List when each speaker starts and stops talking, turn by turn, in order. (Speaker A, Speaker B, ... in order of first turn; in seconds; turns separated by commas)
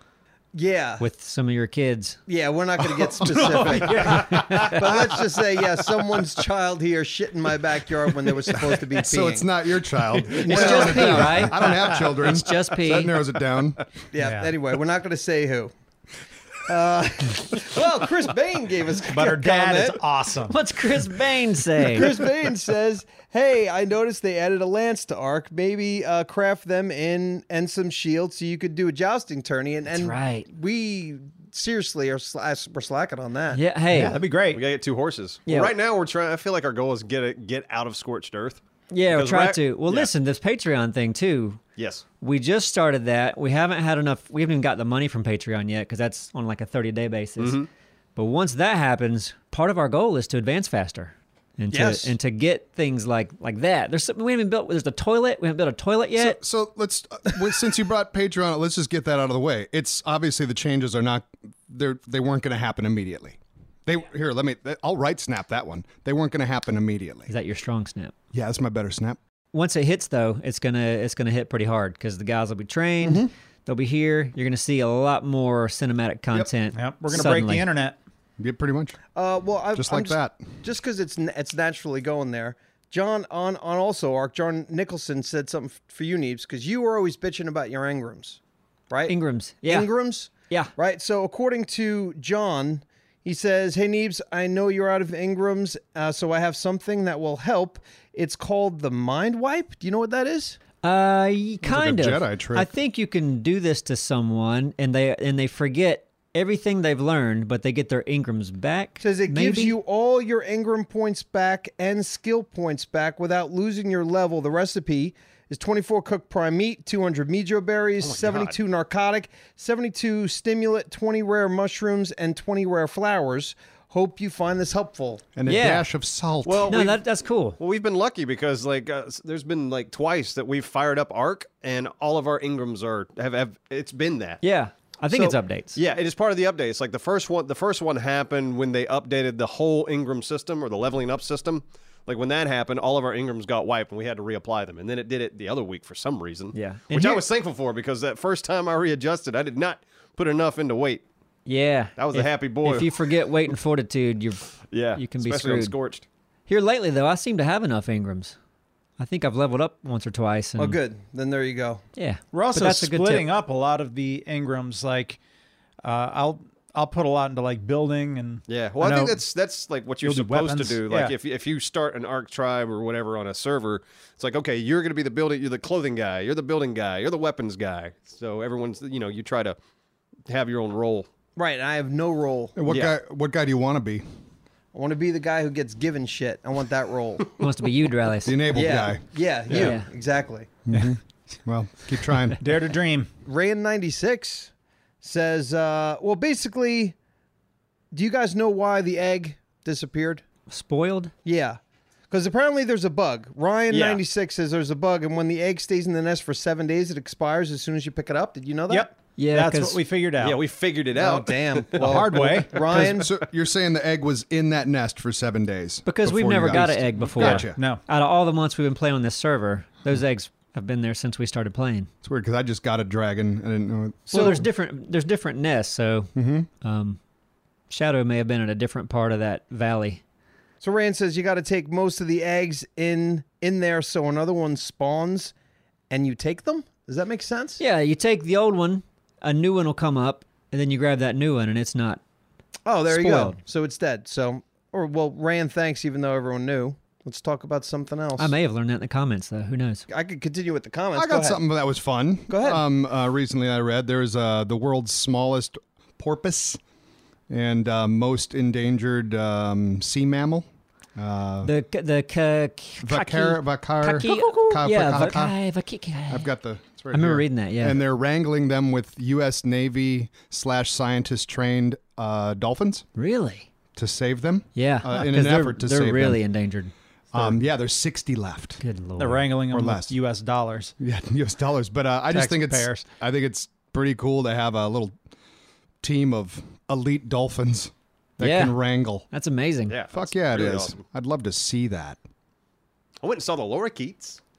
Speaker A: 0.5-1.0, Speaker B: 1.0-2.2, Speaker A: 2.3-9.5, Speaker C: 3.2-5.0, Speaker B: 4.1-5.0, Speaker D: 8.9-13.9, Speaker A: 10.3-11.5, Speaker B: 10.4-13.2, Speaker A: 14.1-15.7, Speaker C: 14.2-14.5, Speaker A: 16.6-20.0, Speaker C: 19.1-20.6, Speaker B: 20.5-22.2, Speaker A: 21.9-33.6, Speaker B: 29.9-30.4, Speaker B: 33.5-34.2, Speaker C: 33.9-34.6, Speaker E: 34.5-40.1, Speaker B: 35.5-35.7, Speaker B: 38.9-41.6, Speaker E: 41.8-42.0, Speaker B: 42.2-47.6, Speaker E: 47.4-47.7, Speaker B: 48.1-56.4, Speaker A: 51.7-52.1, Speaker D: 56.2-67.3, Speaker B: 67.3-68.1, Speaker D: 68.3-69.2, Speaker B: 69.5-77.7, Speaker C: 76.7-78.0, Speaker D: 78.4-79.0, Speaker A: 79.1-88.4, Speaker D: 79.7-80.6, Speaker A: 88.9-100.6, Speaker B: 89.1-90.7, Speaker B: 100.8-109.8, Speaker D: 101.6-102.7, Speaker A: 109.0-125.2, Speaker E: 118.0-118.6, Speaker D: 125.3-126.7, Speaker B: 125.5-125.9, Speaker E: 126.4-127.0, Speaker B: 126.7-127.6, Speaker E: 127.6-134.4, Speaker B: 134.4-135.8, Speaker E: 135.1-151.0, Speaker B: 146.5-147.2, Speaker B: 151.4-155.7, Speaker E: 152.0-153.1, Speaker E: 154.7-156.0, Speaker B: 156.5-158.3, Speaker B: 159.0-160.8, Speaker A: 160.6-161.8, Speaker B: 161.9-163.3, Speaker C: 162.3-165.2, Speaker C: 165.8-169.2, Speaker E: 168.5-179.6, Speaker C: 170.0-171.1, Speaker E: 180.3-181.1, Speaker A: 181.3-182.6, Speaker D: 182.6-184.0, Speaker E: 182.7-182.9, Speaker A: 184.7-187.4, Speaker B: 187.4-188.7, Speaker D: 188.2-189.0, Speaker A: 188.5-190.6, Speaker E: 189.5-189.8, Speaker B: 189.5-189.9, Speaker D: 190.7-192.4, Speaker C: 190.7-191.0, Speaker C: 192.4-193.1, Speaker A: 193.2-194.5, Speaker A: 195.0-196.9, Speaker A: 197.9-200.2, Speaker B: 200.5-201.1, Speaker A: 201.2-201.6, Speaker A: 202.1-208.9, Speaker E: 203.7-204.0, Speaker C: 208.7-210.4, Speaker B: 209.2-209.8, Speaker E: 210.2-213.1, Speaker A: 210.9-213.1, Speaker C: 211.8-212.7, Speaker D: 212.8-217.6, Speaker B: 215.8-221.9, Speaker C: 217.2-217.8, Speaker D: 222.0-224.4, Speaker B: 224.1-227.0, Speaker D: 226.1-226.5, Speaker B: 227.7-230.0, Speaker A: 230.6-235.3, Speaker A: 235.9-237.6, Speaker B: 237.6-242.0, Speaker A: 242.6-248.3, Speaker B: 242.9-243.4, Speaker B: 248.2-249.8, Speaker A: 249.9-251.4, Speaker D: 250.9-256.6, Speaker A: 252.3-252.6, Speaker D: 257.3-261.5, Speaker B: 261.4-266.3, Speaker D: 262.8-265.4, Speaker D: 266.1-272.9, Speaker B: 266.9-267.8, Speaker B: 272.9-273.5, Speaker D: 273.7-276.2, Speaker B: 274.5-276.7, Speaker D: 277.1-278.6, Speaker B: 278.6-279.3, Speaker C: 279.0-280.7, Speaker D: 279.5-279.9, Speaker D: 280.8-284.9, Speaker C: 282.1-282.8, Speaker D: 285.8-289.1, Speaker B: 288.2-288.6, Speaker B: 289.1-289.8, Speaker E: 289.7-290.8, Speaker D: 289.9-292.0, Speaker E: 293.0-294.2